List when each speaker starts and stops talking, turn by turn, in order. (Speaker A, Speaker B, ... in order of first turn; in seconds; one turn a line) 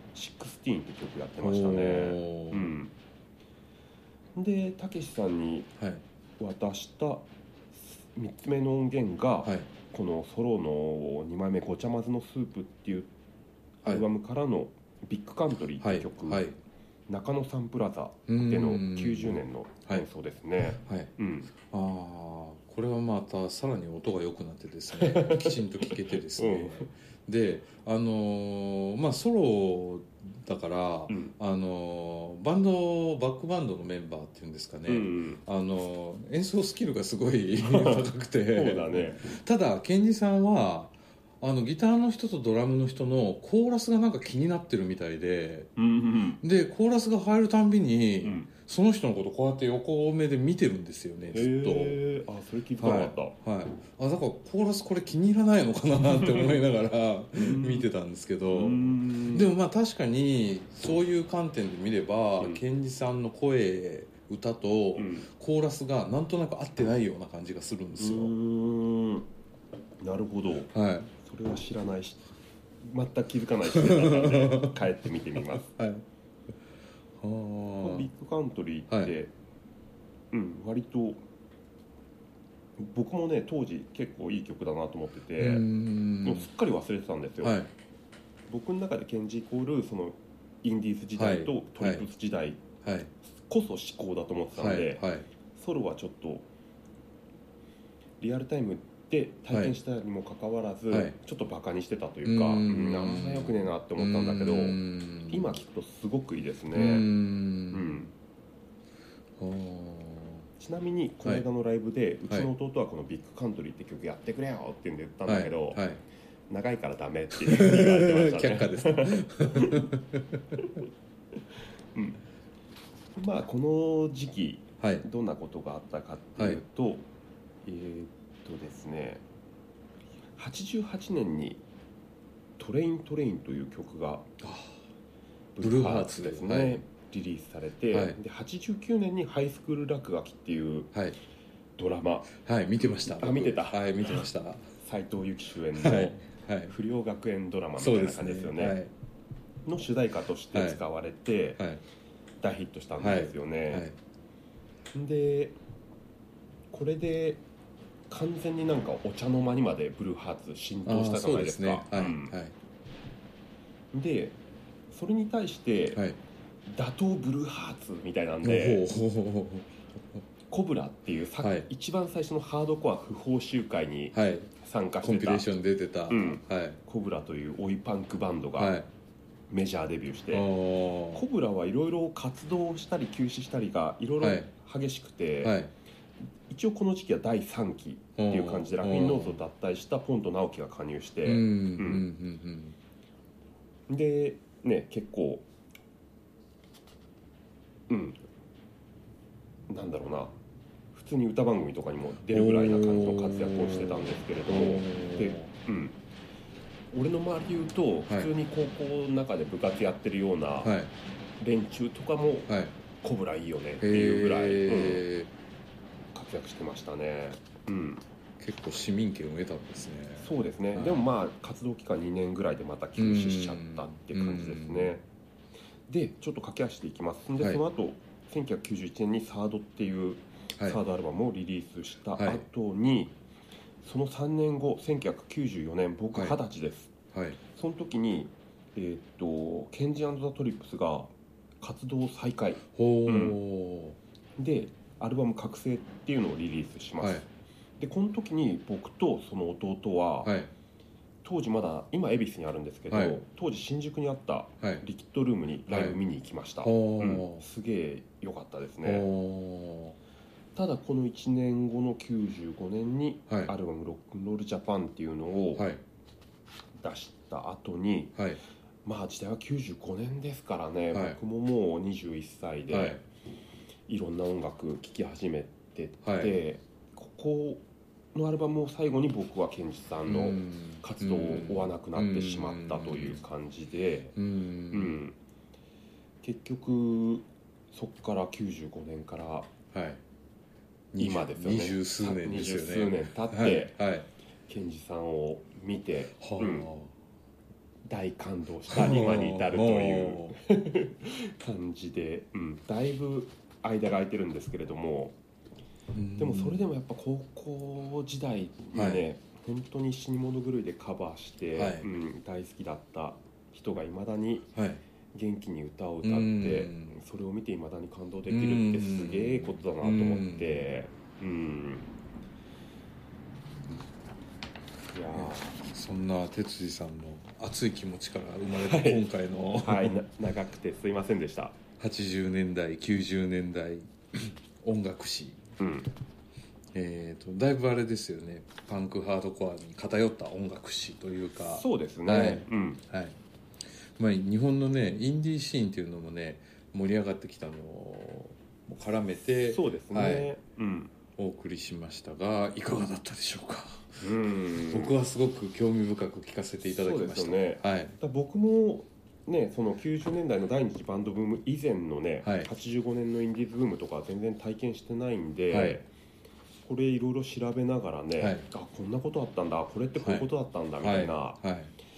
Speaker A: 0.1-2.9
Speaker B: 1.4-2.8
Speaker A: 4.4-5.7
Speaker B: 5.8-6.0
Speaker A: 6.4-13.1
Speaker B: 9.4-9.7
Speaker A: 13.8-16.5
Speaker B: 15.8-16.6
Speaker A: 17.1-21.5
Speaker B: 18.3-20.1
Speaker B: 20.6-21.1
Speaker B: 21.6-45.7
Speaker A: 24.9-26.9
Speaker A: 31.1-31.3
Speaker A: 34.9-35.4
Speaker A: 37.6-39.2
Speaker A: 45.8-46.4
Speaker B: 46.4-52.0
Speaker A: 48.2-48.5
Speaker A: 51.3-53.4
Speaker B: 52.8-68.3
Speaker A: 56.1-56.6
Speaker A: 57.4-57.9
Speaker A: 58.5-59.5
Speaker A: 62.4-62.6
Speaker A: 65.0-65.3
Speaker A: 68.0-69.3
Speaker A: 70.0-72.3
Speaker B: 70.7-71.1
Speaker A: 72.8-75.7
Speaker B: 73.7-74.8
Speaker B: 75.5-76.0
Speaker B: 77.2-78.1
Speaker A: 77.8-79.3
Speaker A: 80.3-81.2
Speaker A: 82.8-85.7
Speaker B: 85.4-86.5
Speaker A: 86.2-87.6
Speaker B: 87.4-87.7
Speaker A: 88.5-92.7
Speaker B: 91.2-92.1
Speaker B: 92.8-93.1
Speaker A: 93.2-96.5
Speaker B: 94.6-95.3
Speaker A: 98.2-107.1
Speaker B: 100.9-101.2
Speaker B: 102.2-105.6
Speaker B: 106.7-108.0
Speaker A: 107.7-108.1
Speaker B: 109.4-110.5
Speaker A: 110.6-115.8
Speaker B: 115.2-116.0
Speaker A: 116.5-119.9
Speaker B: 117.4-120.6
Speaker A: 120.6-120.8
Speaker A: 123.2-127.1
Speaker A: 127.7-129.2
Speaker A: 130.4-131.6
Speaker A: 132.6-134.3
Speaker B: 134.4-134.8
Speaker A: 135.6-140.9
Speaker B: 135.6-136.8
Speaker B: 137.9-138.2
Speaker A: 141.8-144.2
Speaker B: 142.3-144.7
Speaker A: 144.8-148.8
Speaker B: 145.7-146.7
Speaker B: 147.8-148.9
Speaker A: 149.7-151.7
Speaker B: 150.5-150.8
Speaker A: 152.4-153.9
Speaker B: 153.0-153.9
Speaker A: 154.9-155.6
Speaker A: 156.7-157.4
Speaker A: 158.1-162.4
Speaker B: 160.9-162.6
Speaker A: 163.9-164.4
Speaker A: 164.9-166.0
Speaker A: 166.7-168.8
Speaker B: 168.4-170.2
Speaker A: 170.5-175.4
Speaker B: 171.4-171.7
Speaker B: 174.1-174.5
Speaker B: 175.0-176.8
Speaker A: 176.1-178.8
Speaker B: 178.6-178.9
Speaker A: 179.5-180.5
Speaker B: 180.3-181.2
Speaker A: 181.1-185.6
Speaker B: 184.2-184.5
Speaker B: 185.4-185.7
Speaker A: 186.5-192.1
Speaker B: 188.2-189.4
Speaker B: 191.2-192.8
Speaker A: 193.9-195.5
Speaker A: 197.9-198.2
Speaker A: 199.7-200.4
Speaker A: 200.9-206.0
Speaker B: 202.3-205.5
Speaker A: 206.9-210.8
Speaker B: 210.6-210.9
Speaker A: 211.4-215.1
Speaker B: 212.5-212.7
Speaker B: 213.8-215.3
Speaker A: 216.1-218.0
Speaker B: 218.4-221.1
Speaker A: 220.2-225.0
Speaker B: 223.0-225.0
Speaker A: 225.9-233.2
Speaker B: 232.2-232.4
Speaker A: 233.8-243.4
Speaker B: 237.1-237.4
Speaker B: 242.8-244.0
Speaker A: 244.4-247.3
Speaker A: 247.8-250.4
Speaker B: 250.2-250.5
Speaker A: 251.2-259.1
Speaker B: 252.9-253.2
Speaker B: 255.7-256.0
Speaker B: 256.6-257.4
Speaker B: 258.8-260.0
Speaker A: 260.6-265.7
Speaker B: 265.6-265.8
Speaker A: 266.8-268.3
Speaker A: 268.8-273.1
Speaker B: 270.9-271.2
Speaker B: 272.7-273.0
Speaker A: 273.9-284.2
Speaker B: 276.0-276.4
Speaker B: 280.1-283.2
Speaker B: 284.2-285.0
Speaker A: 284.7-285.2
Speaker A: 286.2-289.5
Speaker B: 289.7-290.0
Speaker B: 290.9-294.1
Speaker A: 291.0-293.8
Speaker A: 294.5-296.7
Speaker B: 296.2-296.9
Speaker A: 297.9-305.2
Speaker B: 298.7-300.4
Speaker B: 305.9-306.7
Speaker A: 306.2-314.5
Speaker B: 308.8-309.1
Speaker B: 311.6-311.9
Speaker B: 314.6-314.8
Speaker A: 315.1-321.9
Speaker B: 316.0-317.0
Speaker B: 318.3-320.7
Speaker A: 324.9-325.6
Speaker B: 325.1-330.0
Speaker A: 328.5-331.6
Speaker B: 331.8-335.5
Speaker A: 335.6-335.9
Speaker B: 336.7-343.2
Speaker A: 341.4-342.8
Speaker B: 343.8-350.3
Speaker A: 349.5-350.9
Speaker B: 351.2-354.0
Speaker A: 354.0-354.9
Speaker B: 354.7-358.0
Speaker A: 356.6-365.9
Speaker B: 362.2-362.5
Speaker B: 365.5-365.8
Speaker A: 366.6-371.4
Speaker B: 368.2-368.4
Speaker B: 370.0-370.3
Speaker B: 370.8-371.7